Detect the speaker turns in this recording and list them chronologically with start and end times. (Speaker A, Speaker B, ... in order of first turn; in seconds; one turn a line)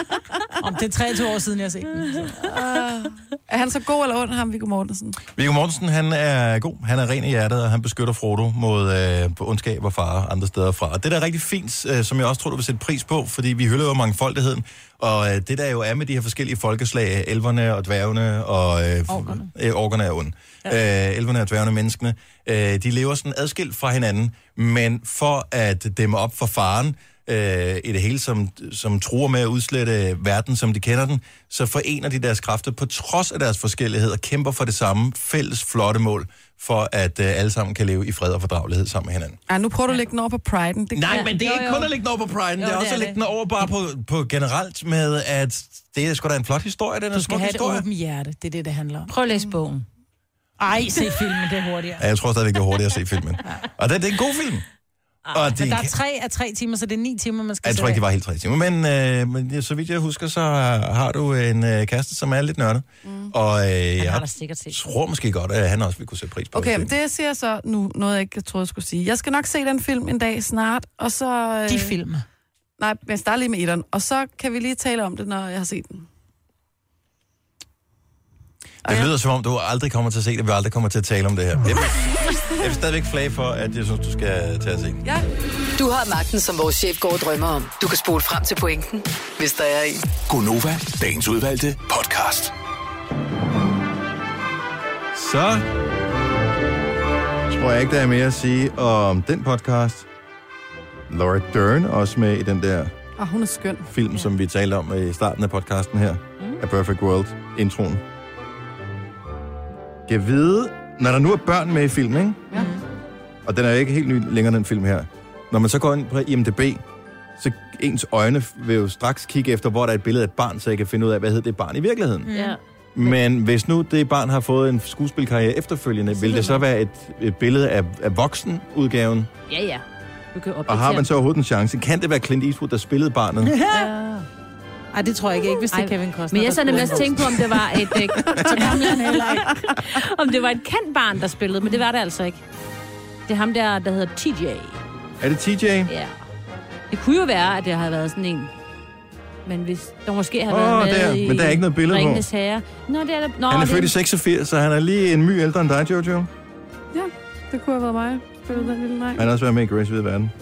Speaker A: 0.6-2.5
Speaker B: 2.4-5.2
Speaker C: 5.3-39.4
Speaker B: 39.5-41.7
Speaker C: 40.9-47.9
Speaker D: 41.1-41.9
Speaker D: 42.6-43.2
Speaker A: 47.1-49.1
Speaker D: 49.1-49.9
Speaker B: 49.3-49.6
Speaker A: 50.6-52.0
Speaker C: 52.0-54.6
Speaker D: 55.3-55.5
Speaker C: 55.3-55.9
Speaker A: 55.6-58.0
Speaker C: 57.6-66.9
Speaker B: 63.0-63.3
Speaker D: 64.0-64.8
Speaker B: 66.5-72.0
Speaker A: 71.7-72.2
Speaker B: 72.8-76.1
Speaker C: 78.8-85.0
Speaker B: 78.8-79.1
Speaker E: 85.8-90.0
Speaker F: 90.3-92.5
Speaker C: 95.1-95.7
Speaker C: 97.5-100.1
Speaker C: 101.1-102.9
Speaker B: 103.2-103.9
Speaker C: 103.9-108.0
Speaker C: 110.1-112.4
Speaker A: 112.5-112.8
Speaker C: 113.5-116.8
Speaker C: 117.4-122.3
Speaker A: 122.2-122.6
Speaker D: 122.3-123.2
Speaker C: 123.0-129.3
Speaker D: 126.2-126.6
Speaker D: 129.5-131.1
Speaker C: 130.7-133.6
Speaker A: 133.5-133.9
Speaker D: 133.7-134.3
Speaker A: 134.9-137.3
Speaker D: 135.7-142.4
Speaker B: 138.2-138.6
Speaker C: 138.3-138.6
Speaker A: 138.5-139.6
Speaker B: 139.5-139.7
Speaker D: 143.3-144.8
Speaker C: 145.2-145.9
Speaker D: 145.9-146.2
Speaker D: 146.9-148.5
Speaker D: 149.5-154.0
Speaker C: 150.5-152.2
Speaker C: 153.5-156.3
Speaker B: 156.9-159.3
Speaker C: 159.2-160.3